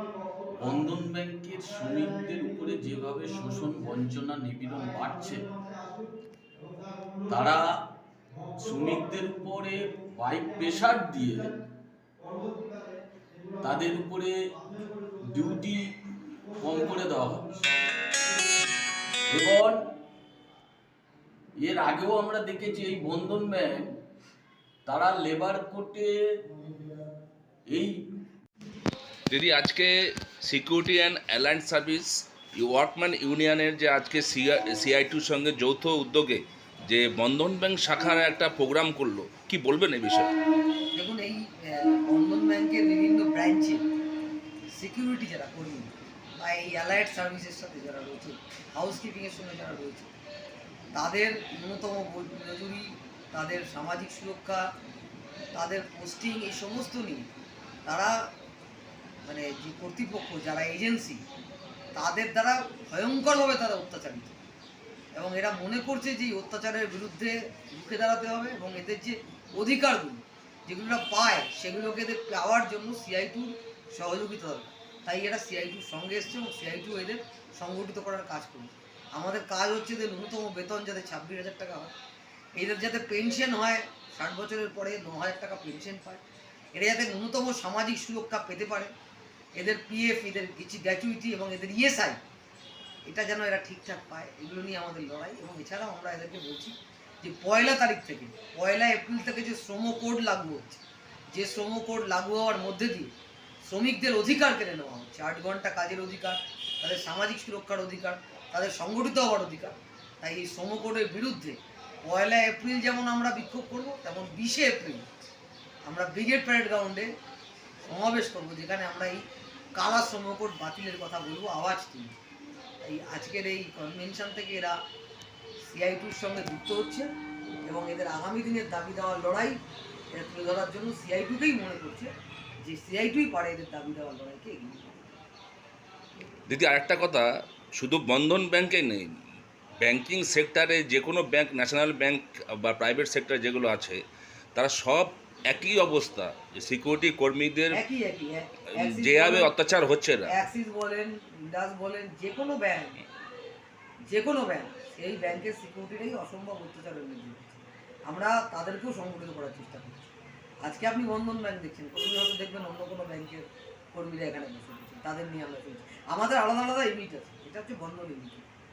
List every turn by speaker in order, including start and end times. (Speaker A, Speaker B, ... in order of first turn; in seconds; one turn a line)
Speaker A: 0.5-5.5
Speaker A: 7.3-7.7
Speaker A: 8.6-11.6
Speaker A: 13.6-14.3
Speaker A: 15.3-15.9
Speaker A: 16.6-17.7
Speaker A: 19.3-19.8
Speaker A: 21.6-23.8
Speaker A: 24.9-26.2
Speaker A: 27.7-27.9
Speaker B: 29.3-40.3
Speaker C: 41.0-43.9
Speaker C: 44.7-50.1
Speaker C: 50.9-54.7
Speaker C: 55.5-57.3
Speaker C: 57.9-58.3
Speaker C: 59.2-61.2
Speaker C: 62.0-64.3
Speaker C: 65.1-81.9
Speaker C: 82.6-88.9
Speaker C: 89.6-92.2
Speaker C: 93.0-103.1
Speaker C: 103.6-115.1
Speaker C: 115.8-117.1
Speaker C: 117.9-119.2
Speaker C: 119.8-122.2
Speaker C: 122.8-124.8
Speaker C: 125.6-127.1
Speaker C: 127.7-129.6
Speaker C: 130.1-132.1
Speaker C: 132.6-134.8
Speaker B: 136.5-139.1
Speaker B: 139.8-144.0
Speaker B: 144.6-147.8
Speaker C: 147.7-149.5
Speaker B: 148.8-150.3
Speaker C: 150.3-153.0
Speaker C: 154.1-160.0
Speaker C: 160.6-168.4